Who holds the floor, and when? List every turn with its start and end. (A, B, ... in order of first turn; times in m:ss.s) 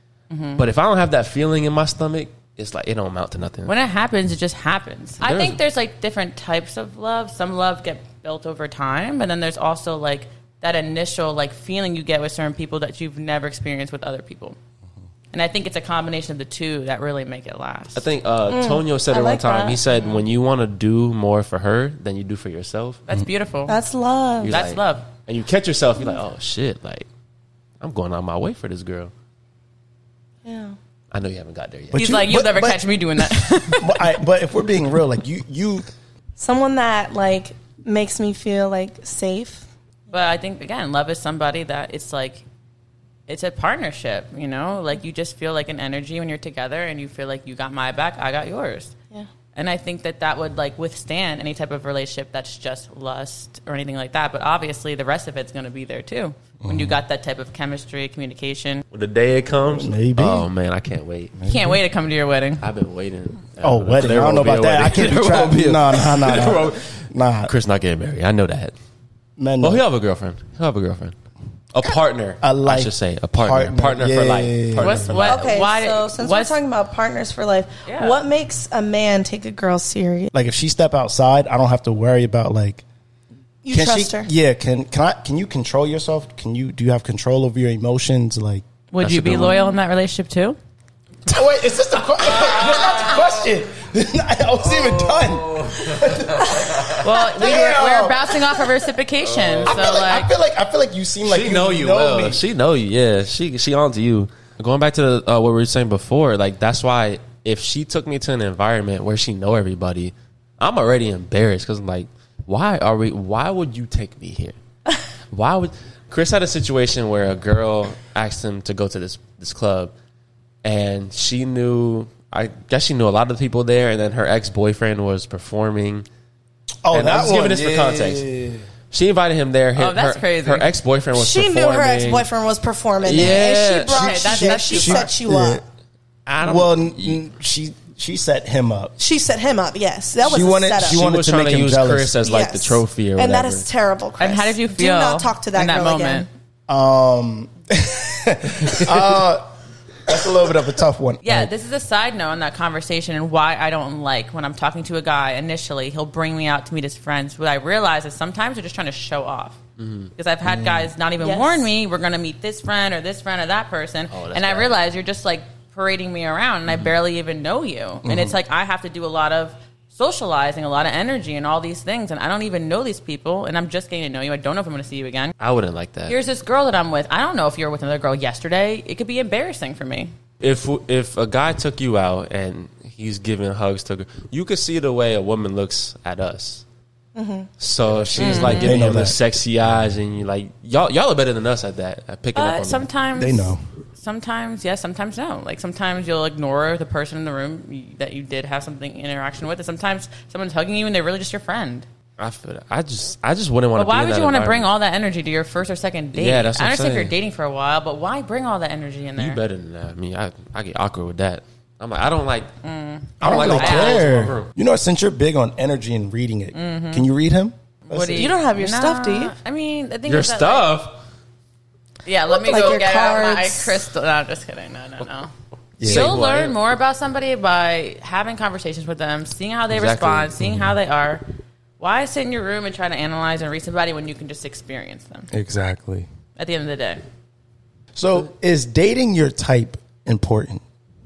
0:00.3-0:00.6 A
0:00.6-0:03.7 B
0:03.6-0:14.6 A
0:05.2-0:05.6 B
0:15.3-0:18.0 A
0:18.0-0:23.0 B
0:18.5-0:19.8 C
0:19.9-0:20.2 A
0:23.1-0:23.8 A
0:23.7-0:24.6 C
0:24.4-0:27.1 B
0:24.5-0:25.1 A
0:27.8-0:29.1 B
0:30.4-0:30.8 C
0:31.1-0:32.1 B
0:31.9-0:35.8 D
0:31.9-0:34.1 A
0:36.4-0:39.6 C
0:40.1-0:42.4 A
0:43.3-0:48.9 A
0:49.5-0:58.8 A
0:56.6-0:57.0 D
0:58.9-1:01.4 B
0:59.6-1:00.5 D
1:01.4-1:01.8 D
1:01.5-1:02.6 A
1:02.6-1:06.9 B
1:03.6-1:07.5 D
1:07.5-1:08.7 B
1:09.4-1:09.8 D
1:09.6-1:11.1 B
1:11.7-1:15.6 B
1:12.4-1:15.2 D
1:14.8-1:16.6 A
1:15.2-1:20.3 C
1:17.8-1:18.2 A
1:20.3-1:22.8 D
1:23.6-1:24.3 C
1:23.7-1:28.6 D
1:28.9-1:30.6 A
1:29.0-1:29.5 B
1:31.2-1:38.4 D
1:32.4-1:33.3 B
1:34.7-1:37.0 B
1:37.0-1:40.3 A
1:39.2-1:39.8 B
1:39.6-1:42.4 D
1:41.2-1:54.6 B
1:55.3-1:59.9 B
2:00.6-2:06.0 B
2:06.8-2:08.6 D
2:06.9-2:08.2 B
2:08.9-2:12.3 B
2:09.8-2:10.7 A
2:11.1-2:15.6 C
2:13.0-2:14.1 B
2:13.1-2:13.4 D
2:13.8-2:15.1 A
2:14.1-2:15.6 D
2:16.3-2:17.2 B
2:16.4-2:18.9 D
2:19.0-2:21.0 C
2:20.2-2:22.2 D
2:20.8-2:23.7 B
2:22.2-2:26.3 C
2:24.2-2:26.3 A
2:26.7-2:29.4 D
2:30.0-2:31.5 D
2:31.2-2:39.6 A
2:39.8-2:40.1 B
2:40.2-2:55.3 A
2:40.4-2:40.9 D
2:41.2-2:41.7 C
2:44.1-2:44.8 B
2:48.0-2:48.4 D
2:55.4-2:56.2 B
2:56.1-3:00.1 A
3:00.4-3:06.6 B
3:07.1-3:07.5 C
3:07.6-3:12.9 B
3:07.9-3:09.2 D
3:08.2-3:08.8 A
3:12.3-3:21.8 A
3:13.2-3:13.6 D
3:22.2-3:24.7 B
3:23.8-3:29.4 A
3:26.1-3:27.1 B
3:29.2-3:32.5 B
3:32.6-3:34.0 A
3:33.2-3:34.5 B
3:33.2-3:38.3 D
3:36.5-3:37.1 A
3:37.9-3:40.7 A
3:38.1-3:39.3 C
3:40.1-3:41.0 B
3:42.0-3:45.3 A
3:42.3-3:43.8 C
3:45.8-3:46.1 D
3:45.8-3:46.6 B
3:45.8-3:51.2 A
3:49.7-3:50.5 B
3:51.8-3:55.3 A
3:55.3-3:56.1 D
3:56.4-3:57.0 A
3:57.9-4:00.6 D